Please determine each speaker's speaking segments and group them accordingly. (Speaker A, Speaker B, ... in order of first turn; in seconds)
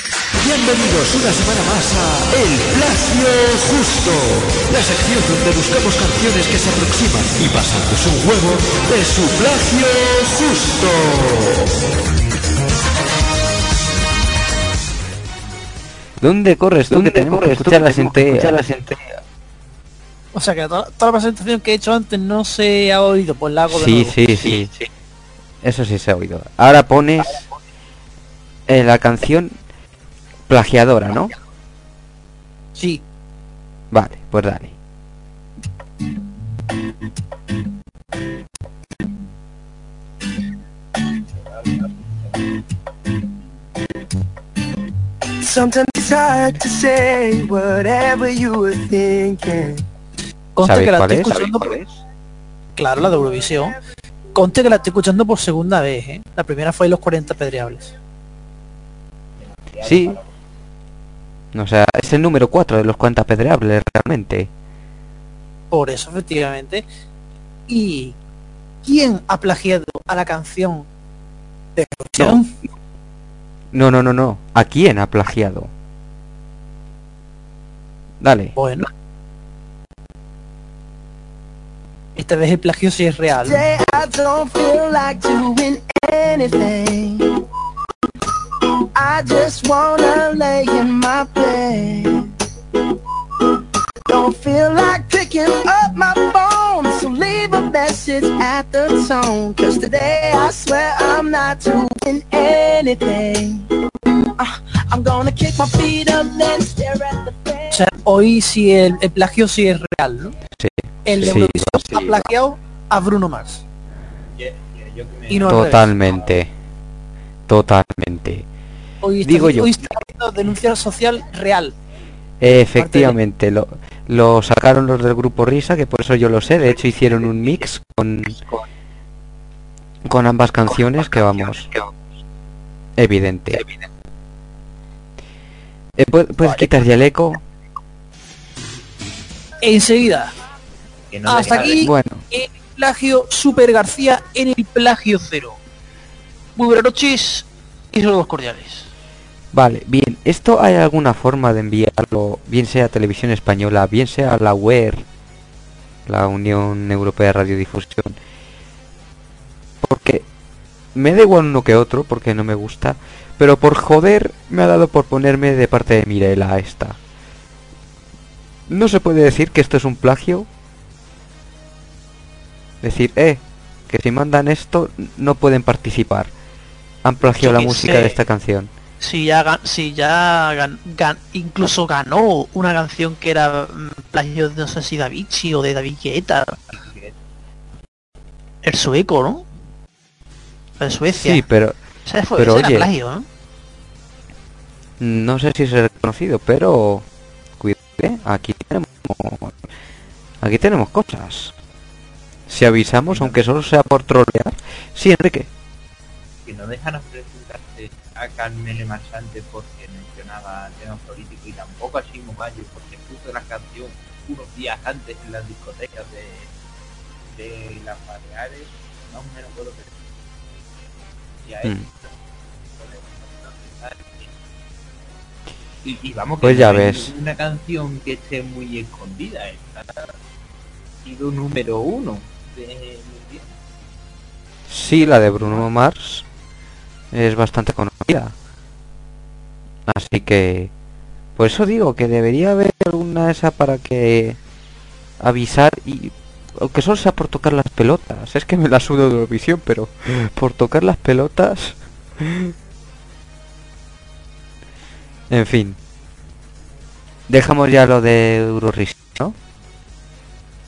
Speaker A: 0.4-11.8, 16.9-19.0
Speaker B: 16.2-18.6, 23.7-24.7, 25.6-27.4, 28.7-29.6, 30.5-31.3, 33.9-34.7, 50.6-51.7, 59.8-60.2, 61.5-64.5, 73.7-75.7, 78.2-78.5, 110.6-112.3, 115.5-116.5, 117.5-118.5, 119.2-120.0, 122.4-128.4, 130.1-131.7, 133.0-133.6, 136.0-137.4, 141.6-142.2, 149.5-155.1, 156.1-158.2, 159.8-160.3, 160.9-167.0, 168.7-170.5, 172.8-176.3, 177.0-178.7, 191.1-191.8, 192.4-192.9, 195.0-197.1, 197.6-199.7, 200.4-201.5, 202.5-205.5, 226.4-227.1, 234.7-236.2, 237.1-238.3, 239.9-240.7, 241.4-244.4, 245.2-252.5, 255.3-255.8, 257.3-259.4
Speaker C: 20.3-24.3, 32.8-33.0, 50.6-51.8, 52.8-53.8, 54.4-57.9, 65.7-66.8, 67.7-68.2, 68.8-70.9, 71.8-72.5, 78.6-78.9, 82.2-83.7, 107.7-110.3, 111.0-113.6, 115.3-116.0, 119.0-121.8, 122.8-123.2, 139.6-140.3, 141.3-145.6, 146.6-148.9, 177.4-178.2, 179.0-186.6, 188.6-189.5, 190.8-191.4, 192.1-193.2
Speaker D: 41.4-42.5, 59.4-60.3, 114.4-116.4, 126.8-127.2, 141.1-141.9, 186.7-187.2, 203.1-203.4, 206.4-216.5, 217.3-220.0, 221.4-224.3, 225.8-230.1, 231.0-233.5, 235.1-235.7
Speaker E: 45.4-49.8, 83.4-87.4, 89.0-92.3, 94.1-103.7, 104.4-107.8